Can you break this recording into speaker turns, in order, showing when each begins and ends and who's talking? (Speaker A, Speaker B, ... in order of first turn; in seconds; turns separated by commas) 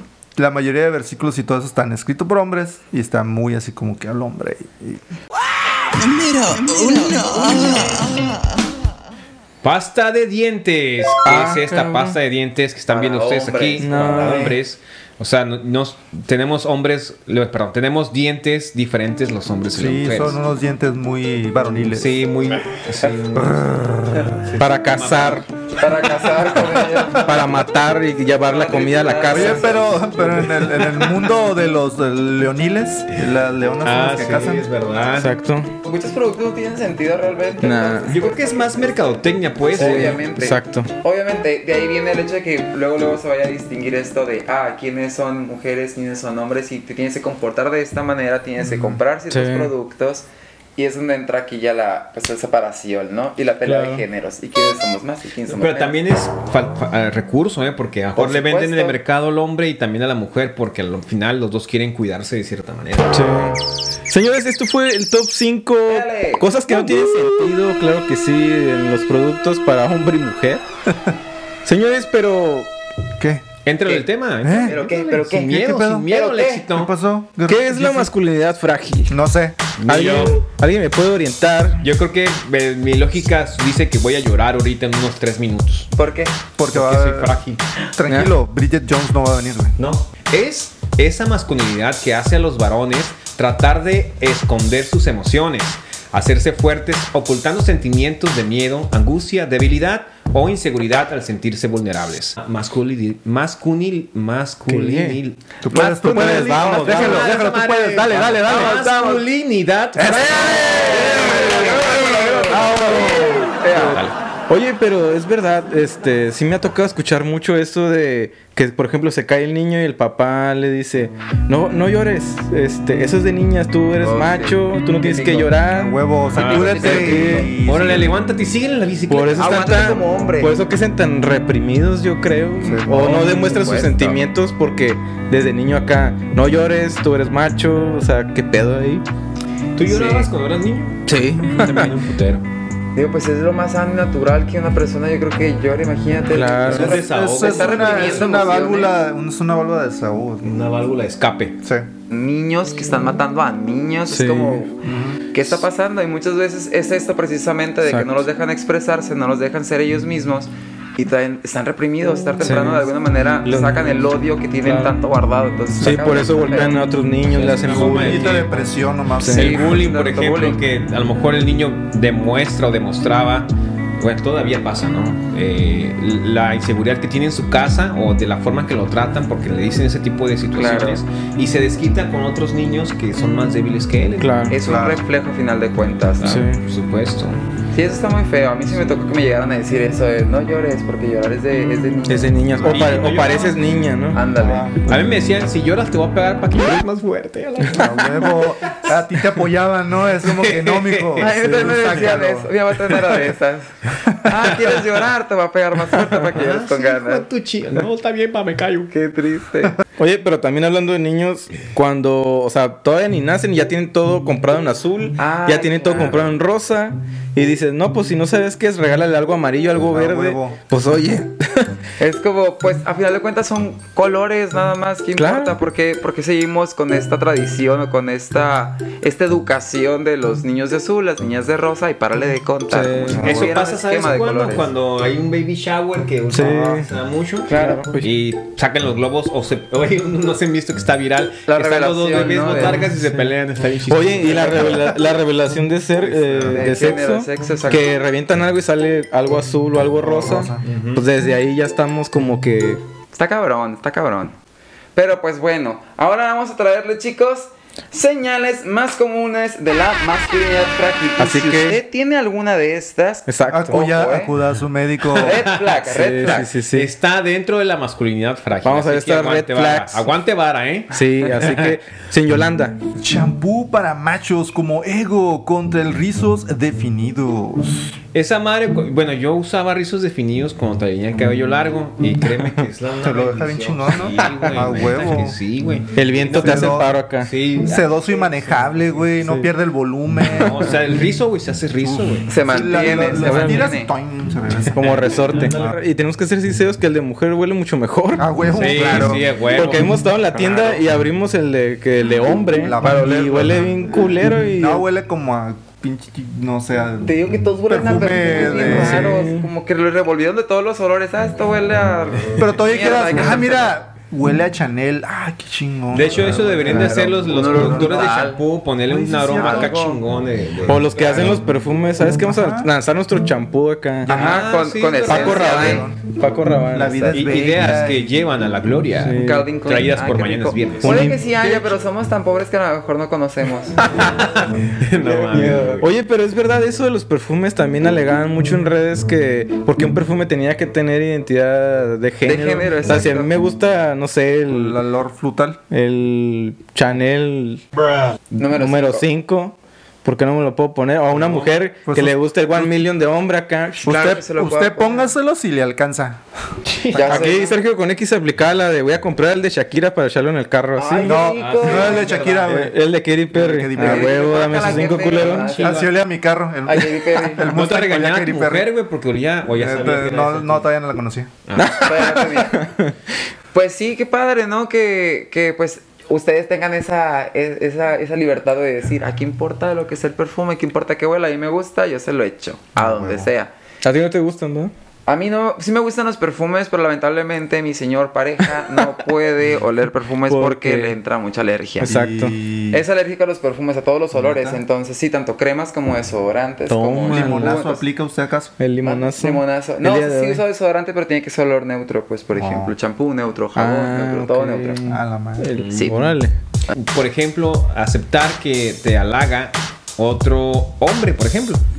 Speaker A: 0.4-5.1, Speaker B: 5.9-8.3, Speaker C: 9.6-20.4, Speaker D: 11.2-12.2, Speaker E: 12.9-14.5, Speaker D: 13.8-14.5, Speaker A: 14.2-14.6, Speaker A: 19.7-22.3, Speaker C: 21.9-23.7, Speaker A: 23.3-24.4, Speaker C: 24.3-25.4, Speaker D: 24.6-25.5, Speaker E: 25.8-27.6, Speaker D: 27.2-29.8, Speaker E: 28.3-30.0, Speaker A: 29.3-34.7, Speaker C: 33.8-35.3, Speaker D: 35.1-35.7, Speaker E: 35.8-50.2, Speaker D: 37.6-38.1, Speaker C: 38.1-40.2, Speaker D: 39.8-40.9, Speaker D: 49.3-49.7, Speaker E: 50.8-56.0, Speaker D: 53.6-54.0, Speaker C: 55.5-63.2, Speaker E: 58.2-59.0, Speaker D: 63.1-70.6, Speaker E: 65.9-66.5, Speaker D: 71.7-72.7, Speaker A: 73.2-73.5, Speaker C: 73.7-76.9, Speaker A: 74.4-74.8, Speaker E: 74.6-76.7, Speaker A: 75.5-76.1, Speaker A: 76.7-78.0, Speaker D: 77.5-79.2, Speaker A: 79.1-79.6, Speaker C: 79.8-80.4, Speaker D: 79.9-81.8, Speaker C: 81.8-85.9, Speaker E: 86.0-86.4, Speaker A: 86.6-87.4, Speaker C: 86.7-87.6, Speaker A: 88.0-89.8, Speaker D: 88.1-88.4, Speaker C: 89.8-105.4, Speaker D: 104.7-105.2, Speaker A: 105.6-108.8, Speaker E: 105.7-107.4, Speaker D: 106.0-106.5, Speaker C: 106.1-111.0, Speaker E: 108.4-109.2, Speaker A: 110.0-113.6, Speaker E: 110.5-114.0, Speaker C: 113.8-114.2, Speaker D: 114.5-126.0, Speaker E: 124.0-125.5, Speaker A: 125.7-128.2, Speaker C: 126.3-130.0, Speaker E: 126.4-127.5, Speaker D: 126.8-127.5, Speaker D: 129.1-139.0, Speaker E: 129.3-130.6, Speaker A: 132.6-133.2, Speaker E: 132.9-134.2, Speaker C: 139.8-142.4, Speaker E: 139.9-140.3, Speaker D: 141.1-141.9, Speaker E: 142.9-148.9, Speaker D: 146.3-147.0, Speaker A: 146.7-150.6, Speaker C: 146.7-148.4, Speaker C: 150.4-151.6, Speaker A: 151.6-151.9, Speaker E: 152.1-154.7, Speaker D: 154.1-154.6, Speaker A: 154.8-155.2, Speaker E: 155.3-166.9, Speaker D: 157.8-158.2, Speaker D: 162.4-162.9, Speaker D: 163.4-164.9, Speaker D: 165.8-168.3, Speaker C: 167.3-168.6, Speaker A: 167.7-169.9, Speaker D: 169.2-169.5, Speaker C: 169.2-184.4, Speaker E: 169.3-170.6, Speaker E: 180.5-181.0, Speaker D: 184.2-184.6, Speaker E: 184.5-186.4, Speaker A: 184.6-185.0, Speaker C: 186.2-187.4, Speaker D: 186.2-186.6, Speaker E: 187.7-192.3, Speaker D: 192.1-194.2, Speaker C: 192.7-193.6, Speaker E: 194.1-194.7, Speaker A: 194.3-194.9, Speaker C: 194.9-198.9, Speaker A: 197.7-202.5, Speaker C: 200.2-201.3, Speaker E: 201.2-203.7, Speaker D: 201.4-201.7, Speaker E: 204.2-207.3, Speaker C: 204.6-205.0, Speaker C: 205.9-208.9, Speaker E: 208.9-209.8, Speaker D: 210.0-221.7, Speaker E: 215.2-216.3, Speaker A: 219.8-220.6, Speaker E: 222.0-234.7, Speaker D: 225.2-225.6, Speaker D: 232.7-233.3, Speaker A: 233.1-233.5, Speaker C: 233.2-244.9, Speaker D: 236.3-236.9, Speaker A: 236.4-236.8, Speaker E: 237.5-237.8, Speaker D: 237.5-238.1, Speaker E: 241.5-242.8, Speaker D: 242.8-243.3, Speaker D: 243.9-252.8, Speaker E: 244.2-245.0, Speaker C: 246.2-246.7, Speaker E: 246.4-247.9, Speaker A: 250.0-250.7, Speaker C: 250.6-251.1, Speaker E: 253.1-254.3, Speaker E: 254.9-264.3, Speaker D: 261.2-261.8, Speaker D: 263.3-263.8, Speaker A: 263.5-265.4, Speaker C: 265.1-271.8, Speaker E: 265.2-266.5, Speaker D: 265.9-266.9, Speaker D: 268.6-270.1, Speaker D: 270.9-272.8, Speaker A: 273.0-278.0, Speaker C: 278.1-288.9, Speaker A: 283.0-285.4, Speaker D: 285.9-287.3, Speaker A: 286.3-286.9, Speaker A: 287.6-290.7, Speaker D: 289.2-289.5, Speaker C: 290.3-292.3, Speaker A: 292.2-294.9, Speaker E: 292.3-293.9, Speaker D: 293.2-293.7, Speaker D: 294.7-298.3, Speaker C: 294.8-295.7, Speaker A: 295.5-295.8, Speaker A: 298.2-299.3, Speaker C: 298.5-300.6, Speaker D: 299.5-304.9, Speaker A: 302.5-309.3, Speaker E: 307.0-313.8, Speaker D: 308.5-309.5, Speaker A: 312.4-318.1, Speaker C: 315.9-321.4, Speaker E: 316.7-318.4, Speaker A: 318.9-319.8, Speaker E: 319.4-320.0, Speaker D: 320.7-324.1, Speaker A: 322.2-322.7, Speaker A: 324.1-324.5, Speaker C: 324.1-325.8, Speaker E: 324.1-325.9, Speaker A: 325.1-326.0, Speaker D: 325.1-327.3, Speaker A: 326.7-328.1, Speaker C: 327.1-331.1, Speaker D: 329.0-329.5, Speaker E: 329.1-334.1, Speaker D: 330.8-331.2, Speaker A: 330.9-331.8, Speaker C: 333.9-335.9, Speaker E: 335.0-335.8, Speaker D: 335.3-344.8, Speaker E: 342.2-343.3, Speaker A: 344.5-345.6, Speaker D: 345.7-347.6, Speaker E: 348.3-349.1, Speaker D: 348.4-353.9, Speaker C: 351.1-351.6, Speaker A: 351.9-352.8, Speaker E: 353.8-355.1, Speaker A: 353.8-356.2, Speaker C: 356.7-357.3, Speaker E: 356.9-357.6, Speaker D: 357.0-361.2, Speaker E: 360.8-362.3, Speaker A: 361.0-362.8, Speaker C: 361.2-362.5, Speaker D: 362.5-365.6, Speaker A: 363.3-364.9, Speaker E: 363.8-365.8, Speaker C: 364.7-365.9, Speaker A: 365.6-368.7, Speaker E: 366.7-367.5, Speaker C: 367.5-370.7, Speaker A: 369.5-371.3, Speaker C: 371.5-372.1, Speaker D: 371.6-372.9, Speaker E: 371.8-372.6, Speaker E: 373.5-383.5, Speaker A: 382.8-383.3, Speaker D: 383.8-384.7, Speaker E: 385.1-391.9, Speaker D: 390.3-391.0, Speaker D: 391.8-392.4, Speaker A: 391.8-392.8, Speaker E: 392.7-397.9, Speaker A: 394.1-394.6, Speaker D: 396.7-397.6, Speaker A: 397.1-398.6, Speaker D: 398.6-400.4, Speaker E: 398.8-404.9, Speaker A: 402.3-402.8, Speaker D: 403.6-406.4, Speaker A: 404.8-405.6, Speaker C: 405.6-406.0, Speaker E: 405.7-406.1, Speaker C: 406.7-411.6